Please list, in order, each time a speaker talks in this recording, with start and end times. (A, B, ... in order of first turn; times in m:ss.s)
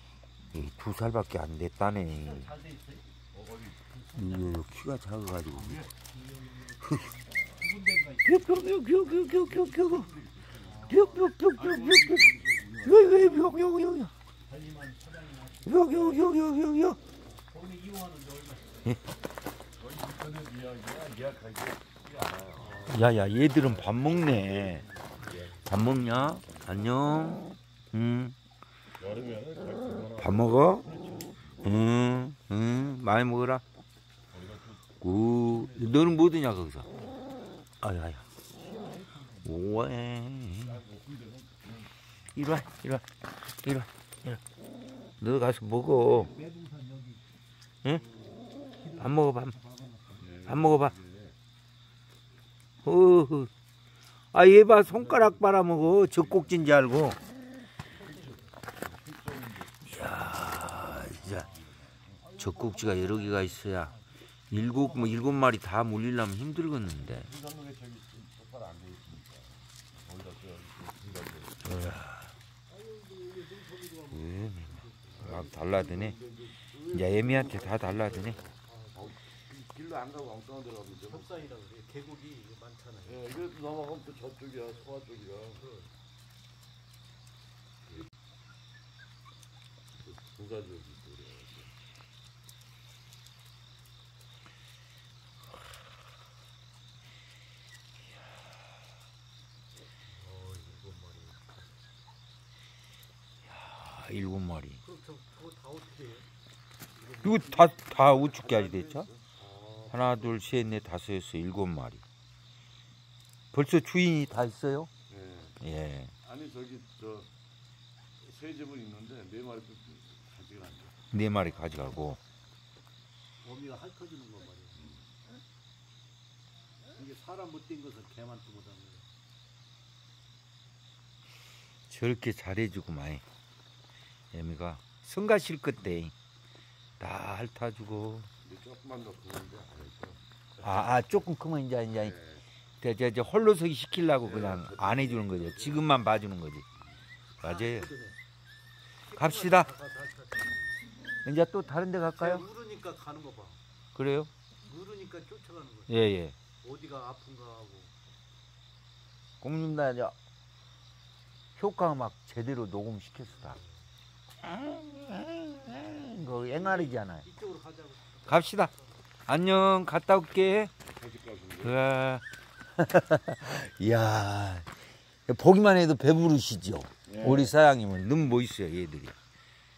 0:00.5-0:02.5 A
0:02.2-0:03.0 B
0:03.3-0:03.9 C
0:03.9-0:04.6 B
0:04.2-0:05.8 A
0:05.6-0:08.8 B
0:06.8-0:07.1 A
0:08.2-0:10.1 A
0:09.2-0:13.4 C
0:10.6-0:11.3 B
0:10.9-0:14.1 A
0:13.0-0:13.3 B
0:14.5-0:16.2 B
0:15.7-0:17.0 A
0:17.4-0:19.0 B
0:19.8-0:26.7 C
0:22.6-0:23.0 B
0:22.8-0:24.8 A
0:25.6-0:28.4 A
0:29.0-0:31.8 C
0:30.2-0:30.9 A
0:31.6-0:33.6 A
0:34.3-0:36.3 C
0:35.0-0:36.9 A
0:37.8-0:38.3 A
0:38.5-0:39.7 B
0:39.4-0:40.8 A
0:40.5-0:41.9 C
0:42.3-0:43.0 A
0:43.6-0:44.4 A
0:45.2-0:46.3 A
0:45.9-0:47.3 B
0:48.0-0:50.4 B
0:49.0-0:49.6 A
0:50.2-0:51.4 C
0:50.5-0:51.0 A
0:52.8-0:53.5 A
0:54.3-0:57.2 A
0:54.9-0:56.6 C
0:58.0-0:58.4 B
0:58.0-1:02.2 C
0:59.9-1:01.5 A
1:02.2-1:04.0 B
1:02.4-1:03.9 A
1:04.5-1:07.3 A
1:07.0-1:11.7 C
1:11.7-1:12.3 A
1:12.7-1:14.2 B
1:14.1-1:16.2 A
1:14.8-1:15.1 B
1:15.1-1:21.3 C
1:16.9-1:18.4 A
1:21.1-1:23.3 B
1:23.0-1:25.9 C
1:30.0-1:31.7 C
1:40.2-1:41.4 C
1:43.5-1:44.8 A
1:44.8-1:46.3 B
1:47.0-1:47.8 B
1:47.2-1:49.1 A
1:47.3-1:50.4 C
1:49.9-1:52.0 A
1:53.5-1:54.9 A
1:55.1-1:55.6 C
1:55.6-1:56.1 A
1:56.2-1:57.3 C
1:58.2-2:01.0 C
2:01.1-2:02.2 A
2:03.4-2:04.8 B
2:04.8-2:05.1 C
2:06.9-2:09.1 B
2:11.9-2:13.2 A
2:14.3-2:16.1 A
2:17.0-2:18.3 A
2:18.4-2:20.8 C
2:20.6-2:22.2 A
2:22.0-2:22.4 C
2:22.8-2:26.6 A
2:24.2-2:25.9 C
2:27.4-2:27.9 A
2:27.4-2:28.2 B
2:29.1-2:30.9 B
2:29.2-2:29.7 A
2:31.2-2:32.4 A
2:32.2-2:33.6 B
2:34.0-2:34.3 A
2:34.6-2:36.0 B
2:35.9-2:36.4 A
2:36.6-2:37.9 B
2:39.4-2:40.2 A
2:41.6-2:43.6 A
2:44.4-2:47.2 A
2:46.5-2:49.0 B
2:48.3-2:48.7 A
2:49.3-2:50.7 A
2:50.9-2:51.8 C
2:51.6-2:52.2 A
2:52.8-2:54.7 A
2:55.3-2:59.2 A
2:57.1-2:57.5 C